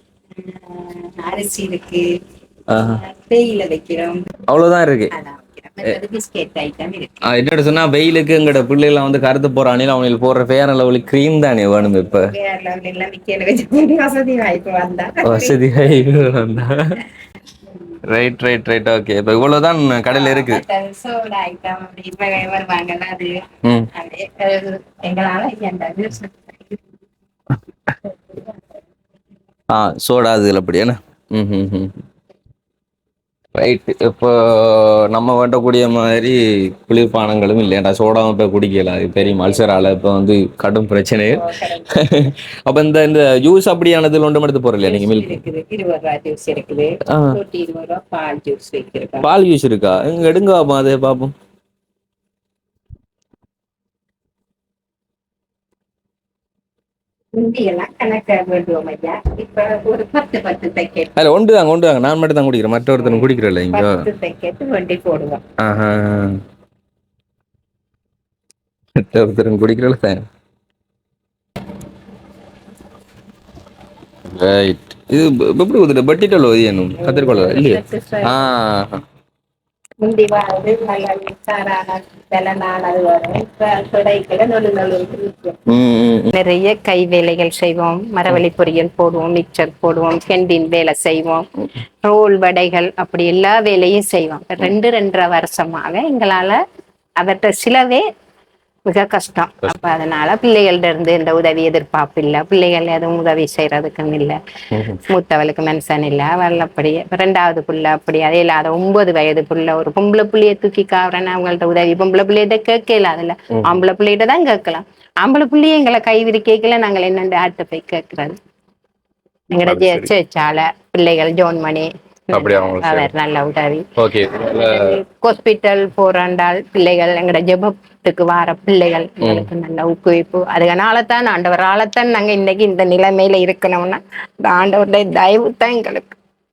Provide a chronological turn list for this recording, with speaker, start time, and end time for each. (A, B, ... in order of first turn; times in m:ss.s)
0:00.4-0:02.2 A
0:02.7-0:03.0 B
0:02.9-0:04.3 A
0:04.5-0:05.1 B
0:05.1-0:07.2 A
0:07.2-0:12.3 B
0:12.3-0:15.6 A
0:15.2-0:17.0 B
0:18.0-0:20.6 B
0:20.1-0:26.8 A
0:28.1-0:28.6 A
0:29.7-0:32.0 B
0:33.6-0:45.4 B
0:41.3-0:42.0 A
0:44.8-0:49.3 A
0:47.1-0:47.4 B
0:49.2-0:51.4 B
0:57.4-1:01.1 A
1:01.2-1:04.1 B
1:03.0-1:05.4 A
1:05.6-1:06.4 B
1:09.0-1:10.2 B
1:14.3-1:19.0 B
1:17.0-1:18.5 A
1:20.0-1:25.6 A
1:25.7-1:26.3 B
1:26.3-1:31.5 A
1:32.0-1:36.6 A
1:37.2-1:38.1 A
1:38.9-1:44.4 A
1:44.7-1:45.0 B
1:44.9-1:58.4 A
1:59.5-2:16.2 A
1:59.6-2:00.1 B
2:02.3-2:03.1 B
2:04.0-2:05.0 B
2:09.2-2:09.5 B